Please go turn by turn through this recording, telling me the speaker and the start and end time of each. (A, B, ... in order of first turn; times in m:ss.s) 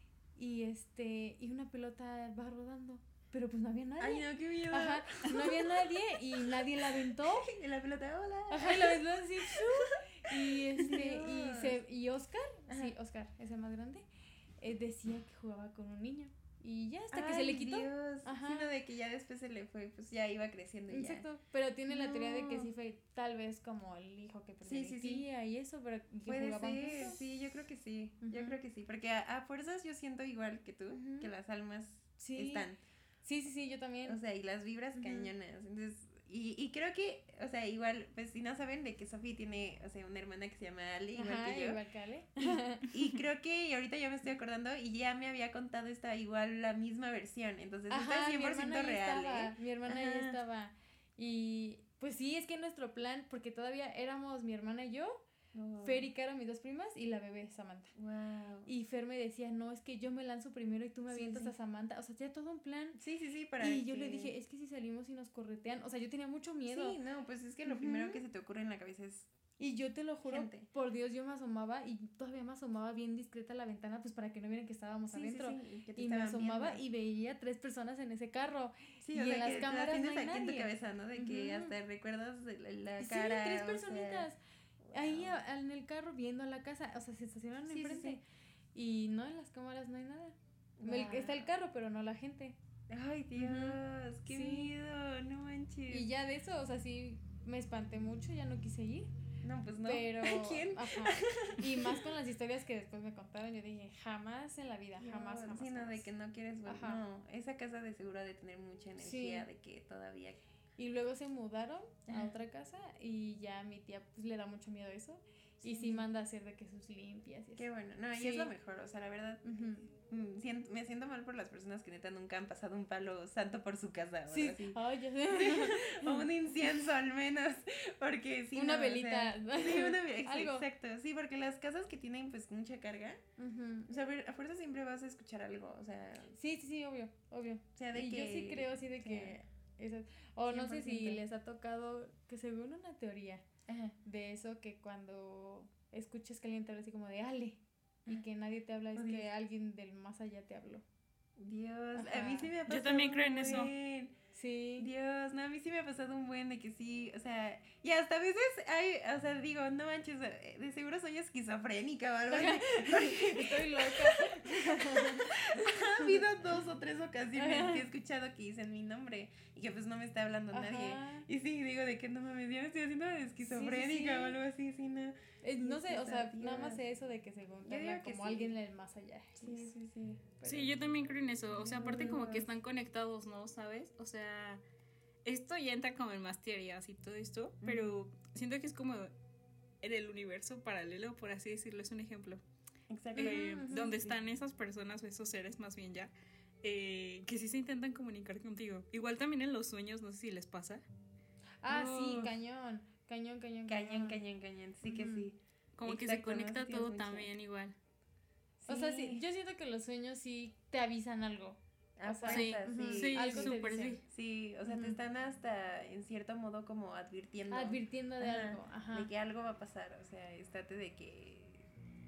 0:00.4-0:07.5 A
0:04.0-0:05.7 B
0:07.2-0:11.8 B
0:08.5-0:14.1 A
0:12.7-0:12.9 B
0:14.6-0:18.7 A
0:17.1-0:21.3 B
0:20.9-0:27.2 A
0:21.9-0:22.7 B
0:24.6-0:25.3 B
0:26.3-0:32.8 B
0:28.2-0:28.6 A
0:30.9-0:31.3 A
0:32.2-0:32.7 A
0:33.2-0:34.2 A
0:34.0-0:41.8 B
0:35.0-0:35.3 A
0:41.1-0:42.9 A
0:42.4-0:50.4 B
0:47.9-0:55.2 A
0:55.5-0:56.1 B
0:55.8-0:57.9 A
0:58.0-0:58.7 B
0:58.7-1:03.0 A
1:01.1-1:01.5 B
1:03.0-1:04.3 B
1:03.6-1:07.0 A
1:06.7-1:09.3 B
1:07.7-1:08.2 A
1:09.6-1:21.7 A
1:10.3-1:10.7 B
1:15.1-1:16.8 B
1:19.0-1:24.3 B
1:23.0-1:24.4 A
1:24.8-1:25.4 B
1:24.9-1:28.2 A
1:27.7-1:28.2 B
1:28.7-1:32.6 A
1:30.8-1:31.5 B
1:32.9-1:36.1 B
1:33.4-1:34.7 A
1:35.9-1:39.1 A
1:39.4-1:42.1 B
1:39.8-1:46.1 A
1:45.0-1:50.4 B
1:46.7-1:47.0 A
1:49.0-1:49.5 A
1:50.8-1:58.5 A
1:52.1-1:52.3 B
1:55.6-1:56.1 B
1:57.6-2:04.8 B
1:59.4-1:59.9 A
2:04.3-2:06.3 A
2:05.3-2:13.2 B
2:08.6-2:10.7 A
2:13.4-2:13.9 A
2:13.9-2:16.3 B
2:16.3-2:23.4 A
2:17.8-2:19.4 B
2:20.5-2:21.2 B
2:23.7-2:24.0 B
2:24.0-2:30.8 A
2:29.0-2:29.3 B
2:31.4-2:34.1 B
2:32.0-2:32.5 A
2:32.7-2:33.7 C
2:34.3-2:34.9 A
2:34.8-2:56.8 B
2:42.3-2:46.2 A
2:47.4-2:47.9 A
2:50.5-2:51.3 A
2:53.4-2:54.4 A
2:55.4-2:59.8 A
2:57.6-2:58.6 B
2:59.4-3:00.3 B
3:00.4-3:01.1 A
3:00.4-3:04.6 C
3:01.6-3:02.5 B
3:05.2-3:09.1 C
3:07.6-3:08.0 B
3:09.8-3:12.4 C
3:12.9-3:14.2 B
3:13.2-3:13.9 A
3:13.2-3:16.1 C
3:16.6-3:20.8 C
3:21.6-3:24.2 A
3:21.7-3:22.3 B
3:23.7-3:27.3 B
3:24.9-3:25.3 A
3:25.8-3:27.8 C
3:28.6-3:29.2 B
3:28.7-3:34.0 A
3:32.0-3:41.7 B
3:32.3-3:34.0 C
3:34.7-3:35.0 A
3:37.5-3:39.1 A